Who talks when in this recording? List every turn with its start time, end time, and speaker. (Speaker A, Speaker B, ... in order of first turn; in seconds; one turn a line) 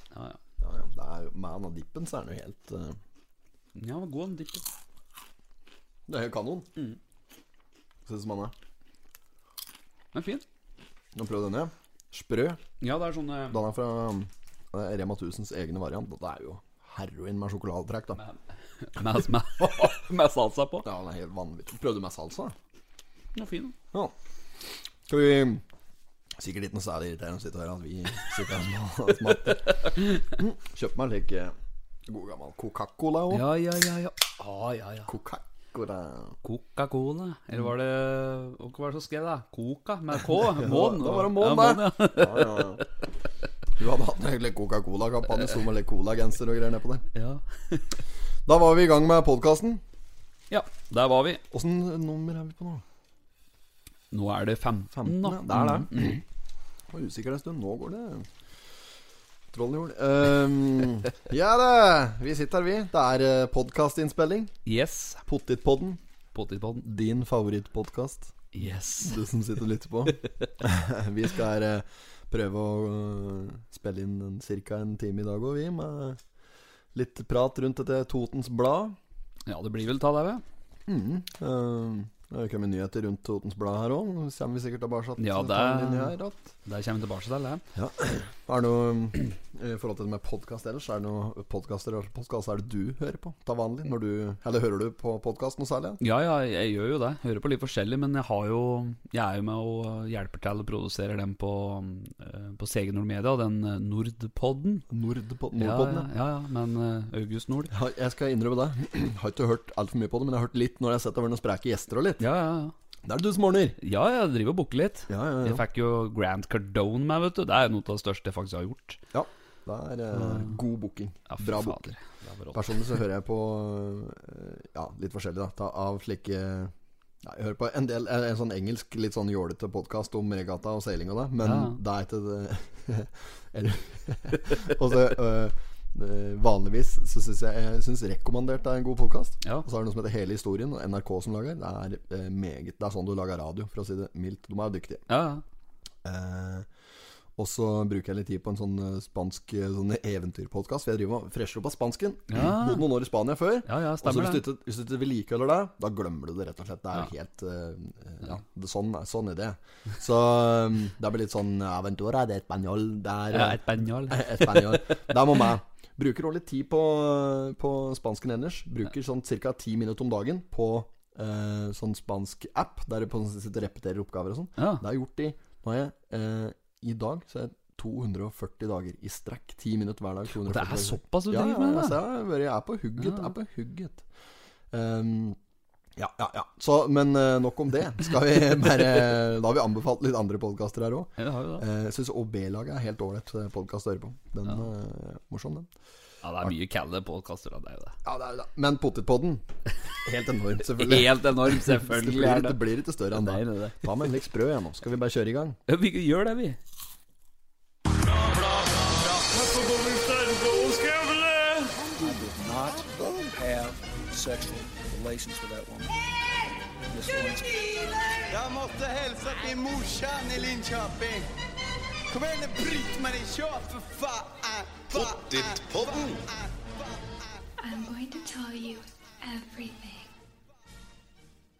Speaker A: 0.1-0.4
Speaker B: 0.6-3.0
Speaker A: 3.8-4.6
Speaker B: 6.1-6.7
Speaker B: 8.1-8.5
Speaker A: 10.1-10.4
Speaker B: 11.2-12.6
Speaker A: 12.8-13.6
Speaker B: 13.5-18.2
Speaker A: 18.9-20.9
Speaker B: 20.8-22.6
Speaker A: 23.3-23.8
Speaker B: 25.1-25.6
Speaker B: 26.4-31.6
Speaker A: 29.5-29.9
Speaker B: 32.1-33.5
Speaker A: 33.3-35.1
Speaker B: 35.1-36.4
Speaker A: 36.4-42.8
Speaker B: 40.4-42.9
Speaker B: 43.8-47.1
Speaker A: 47.1-48.0
Speaker B: 48.5-49.8
Speaker A: 50.5-51.4
Speaker B: 51.5-52.8
Speaker A: 54.1-56.1
Speaker B: 55.0-56.2
Speaker B: 56.9-58.3
Speaker B: 59.5-64.5
Speaker A: 64.7-65.2
Speaker B: 65.3-66.0
Speaker A: 66.3-66.9
Speaker B: 66.8-68.3
Speaker A: 68.5-69.2
Speaker B: 69.0-76.2
Speaker B: 76.9-79.0
Speaker A: 79.5-80.4
Speaker B: 80.9-86.5
Speaker A: 85.2-87.6
Speaker B: 87.8-96.0
Speaker A: 96.0-104.9
Speaker B: 104.9-106.1
Speaker A: 105.6-107.7
Speaker B: 107.7-112.2
Speaker A: 112.2-112.7
Speaker B: 113.0-113.8
Speaker A: 113.8-119.0
Speaker B: 115.1-115.6
Speaker B: 119.1-122.0
Speaker A: 120.1-120.6
Speaker A: 121.3-122.8
Speaker B: 122.5-145.1
Speaker A: 131.4-131.8
Speaker A: 145.1-145.4
Speaker B: 146.0-146.7
Speaker B: 147.4-184.1
Speaker A: 152.3-152.9
Speaker A: 153.7-154.4
Speaker A: 163.3-165.0
Speaker A: 174.6-174.8
Speaker A: 180.4-182.0
Speaker A: 183.0-183.3
Speaker B: 184.7-185.4
Speaker B: 186.0-195.7
Speaker A: 191.2-191.6
Speaker A: 196.2-198.0
Speaker B: 198.1-199.4
Speaker B: 200.0-205.6
Speaker A: 200.7-204.2
Speaker A: 205.7-206.6
Speaker C: 208.1-216.0
Speaker B: 212.9-213.3
Speaker C: 216.9-217.9
Speaker D: 218.3-221.3
Speaker D: 222.1-226.7
Speaker E: 227.6-230.1